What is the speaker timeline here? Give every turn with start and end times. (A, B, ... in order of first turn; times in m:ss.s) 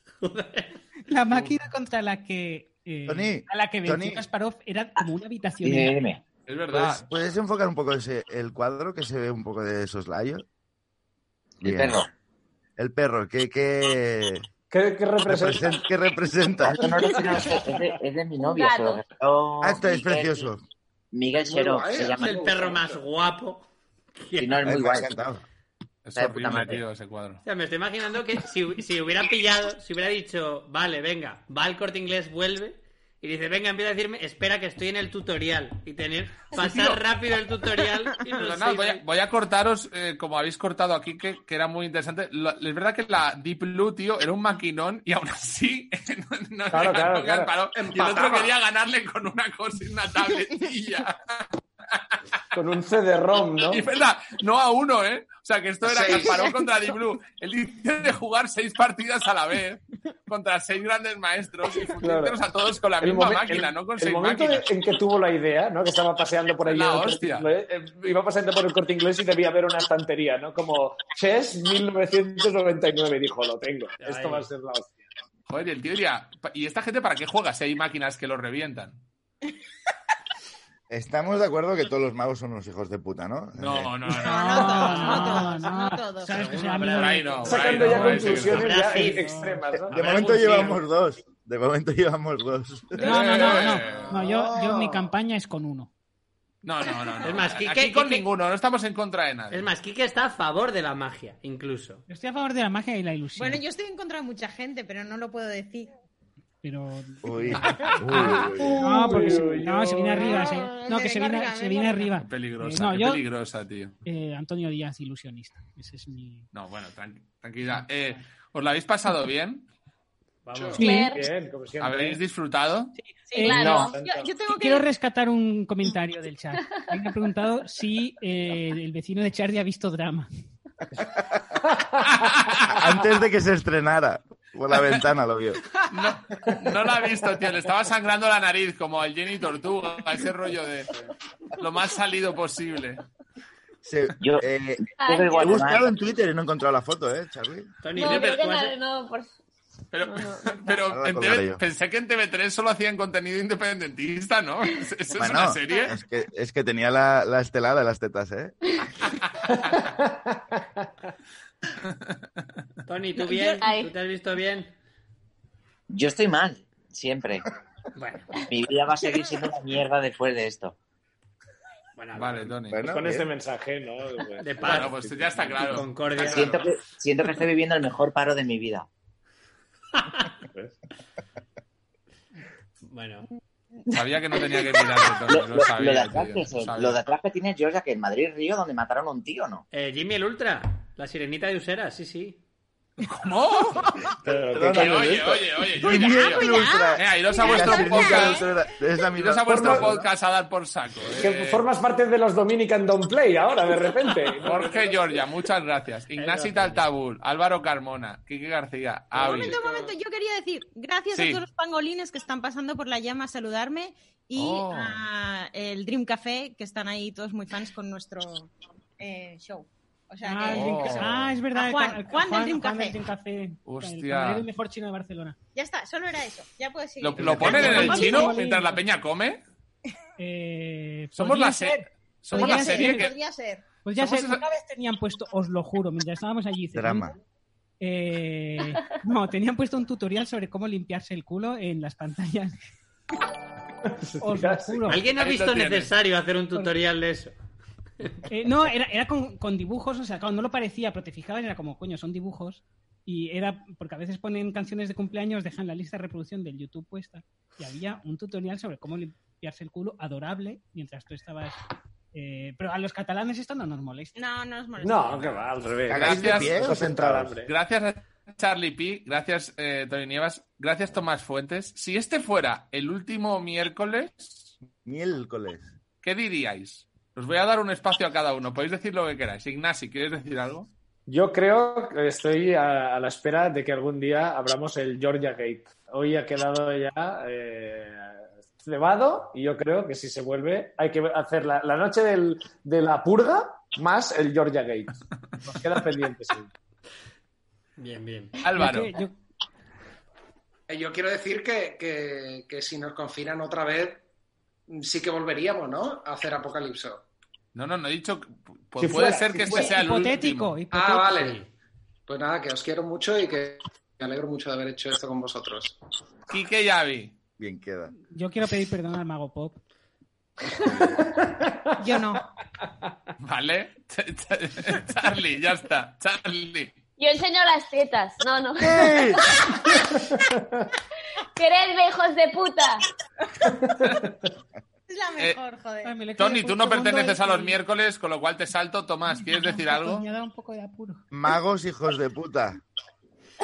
0:00.2-0:00.8 A
0:01.1-0:06.1 B
0:01.3-0:01.6 C
0:03.1-0:04.2 D
0:05.6-0:06.2 E
0:06.4-0:07.0 C
0:06.7-0:10.4 D
0:11.6-0:12.0 D
0:11.6-0:12.1 E
0:12.8-0:14.5 D
0:14.7-0:15.8 F
0:15.2-0:16.9 D
0:16.6-0:20.5 E
0:16.7-0:17.8 F
0:18.4-0:19.0 G
0:19.6-0:20.6 D
0:21.1-0:22.4 E
0:21.4-0:23.0 H
0:22.1-0:24.7 A
0:24.4-0:25.1 E
0:24.6-0:25.4 D
0:26.0-0:27.4 C
0:26.2-0:26.8 E
0:27.4-0:39.0 A
0:36.5-0:37.0 C
0:38.2-0:52.2 C
0:46.7-0:47.5 F
0:47.7-0:48.6 H
0:52.5-0:53.8 F
0:53.7-1:04.6 C
0:55.8-0:56.6 H
1:02.0-1:02.4 F
1:03.0-1:15.0 F
1:06.7-1:07.4 C
1:14.0-1:14.5 A
1:15.5-1:19.0 C
1:20.9-1:23.9 D
1:23.6-1:25.3 C
1:24.2-1:26.5 I
1:24.5-1:29.6 B
1:24.7-1:25.1 F
1:26.3-1:30.7 A
1:26.9-1:28.8 C
1:27.4-1:30.8 F
1:29.9-1:33.1 D
1:30.0-1:30.8 C
1:32.9-1:34.2 C
1:33.0-1:35.9 B
1:33.2-1:35.1 H
1:36.6-1:39.7 C
1:37.2-1:38.2 A
1:39.5-1:42.0 A
1:42.1-1:43.6 B
1:43.4-1:45.9 I
1:46.6-1:53.2 B
1:47.2-1:48.8 D
1:47.6-1:48.7 C
1:48.6-1:50.5 F
1:50.2-1:52.2 I
1:52.2-1:53.9 C
1:54.0-1:56.5 B
1:56.5-1:59.6 C
2:00.5-2:02.2 F
2:00.5-2:00.8 A
2:00.8-2:01.1 B
2:00.8-2:01.3 G
2:01.8-2:02.9 C
2:03.0-2:03.9 B
2:03.2-2:04.9 I
2:03.4-2:03.9 G
2:03.5-2:04.3 F
2:04.4-2:10.3 B
2:11.7-2:12.1 F
2:12.0-2:13.0 C
2:12.7-2:15.6 D
2:15.9-2:20.9 C
2:21.6-2:23.0 C
2:23.8-2:27.7 D
2:24.2-2:25.9 E
2:24.9-2:25.8 G
2:27.8-2:28.7 A
2:27.9-2:29.3 G
2:28.0-2:28.4 C
2:29.9-2:36.0 C
2:30.0-2:30.7 G
2:30.9-2:31.6 D
2:35.1-2:38.5 D
2:39.1-2:39.8 C
2:39.5-2:40.9 F
2:41.8-2:42.4 C
2:42.9-2:44.7 A
2:43.3-2:43.6 I
2:43.6-2:43.9 G
2:45.9-2:47.4 E
2:47.9-2:48.3 A
2:48.5-2:50.8 E
2:52.0-2:52.5 A
2:52.1-2:52.8 C
2:52.7-2:53.3 D
2:52.8-2:56.6 F
2:54.4-2:56.7 A
2:54.6-2:55.9 C
2:56.2-2:58.9 E
3:02.9-3:03.3 A
3:03.9-3:07.0 C
3:05.3-3:09.6 E
3:09.7-3:12.4 A
3:13.0-3:18.4 C
3:14.2-3:16.1 F
3:14.5-3:20.0 D
3:16.0-3:18.8 I
3:19.2-3:21.6 C
3:19.4-3:20.0 F
3:21.2-3:25.2 F
3:24.4-3:29.6 C
3:26.1-3:26.8 A
3:29.2-3:43.0 I
3:31.1-3:31.4 C
3:34.4-3:35.0 C
3:40.2-3:45.4 B
3:40.5-3:41.3 C
3:43.6-3:44.5 C
3:45.5-3:48.4 I
3:47.0-3:49.4 C
3:47.2-3:47.9 F
3:47.3-3:48.8 B
3:50.2-3:53.1 B
3:51.2-3:53.1 C
3:52.3-3:53.7 I
3:53.8-3:57.2 B
3:54.0-3:54.4 C
3:56.7-3:57.2 D
3:57.8-4:02.6 B
4:03.8-4:05.0 F
4:04.2-4:05.0 B
4:04.9-4:07.3 A
4:05.1-4:05.9 C
4:08.3-4:21.6 B
4:22.1-4:24.1 B
4:24.1-4:25.5 I
4:24.8-4:27.5 F
4:25.9-4:27.3 D
4:25.9-4:26.8 C
4:27.4-4:34.5 C
4:34.8-4:35.7 D
4:36.0-4:40.7 C
4:41.1-4:56.5 F
4:57.8-4:58.4 A
4:58.4-4:58.9 C
4:58.5-4:59.1 B
5:00.7-5:04.0 H
5:04.7-5:07.0 H
5:07.5-5:10.6 C
5:08.8-5:09.7 F
5:09.3-5:11.3 B
5:10.7-5:11.4 H
5:11.1-5:11.5 A
5:12.1-5:15.8 H
5:16.3-5:17.1 C
5:17.4-5:17.9 D
5:18.0-5:19.6 B
5:21.2-5:21.7 F
5:21.8-5:22.2 I
5:23.2-5:26.8 C
5:27.0-5:29.8 G
5:28.6-5:29.2 D
5:30.3-5:30.6 F
5:31.4-5:32.8 G
5:33.5-5:34.2 F
5:34.9-5:36.1 I
5:35.8-5:37.6 B
5:36.2-5:40.0 C
5:39.1-5:41.0 B
5:41.1-5:42.6 D